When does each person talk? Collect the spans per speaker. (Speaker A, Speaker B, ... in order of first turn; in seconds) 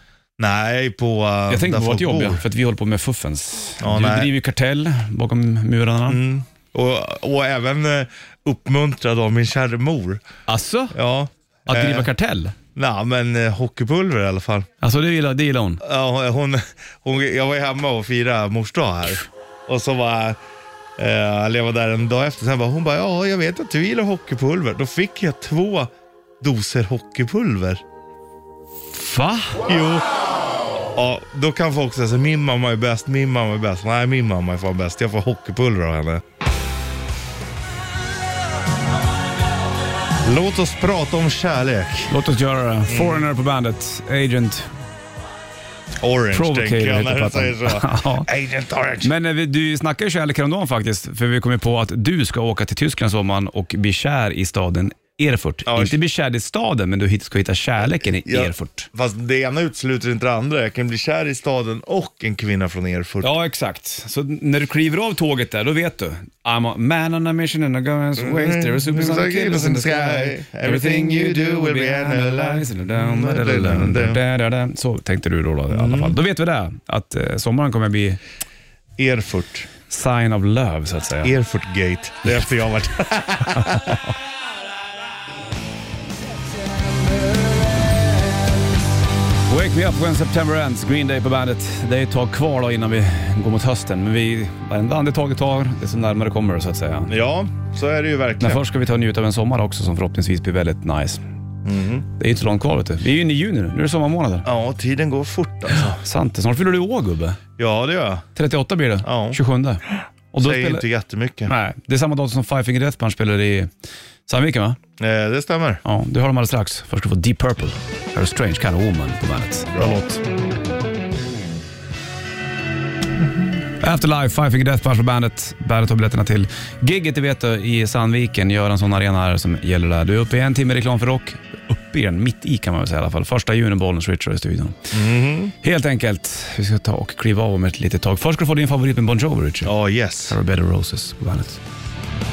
Speaker A: 0.4-2.4, 3.8-4.3, 6.1-10.2, 10.9-12.1, 12.7-14.7, 15.8-20.4, 21.0-25.9, 26.4-27.8, 29.6-30.0, 30.9-36.2, 40.2-42.1, 42.9-43.2, 46.0-49.1, 55.7-56.0, 58.2-63.3, 68.2-74.2, 75.7-76.2, 79.0-79.7, 81.2-84.0, 97.1-98.6, 101.6-102.0, 104.4-106.0, 107.6-108.2, 109.0-109.4, 110.4-111.5, 115.0-115.8, 134.9-135.5, 139.6-140.4
Speaker B: 1.5-6.2, 10.5-10.9, 11.7-12.5, 14.8-15.8, 28.9-29.6, 42.1-44.7, 46.3-48.3, 49.0-58.9, 63.2-78.2, 79.9-81.3, 83.5-84.0, 89.5-97.1, 98.4-101.2, 102.2-104.5, 105.9-107.4, 108.3-110.8, 111.5-113.7, 114.3-114.8, 115.8-120.2, 123.8-134.9, 135.6-139.7, 140.3-141.6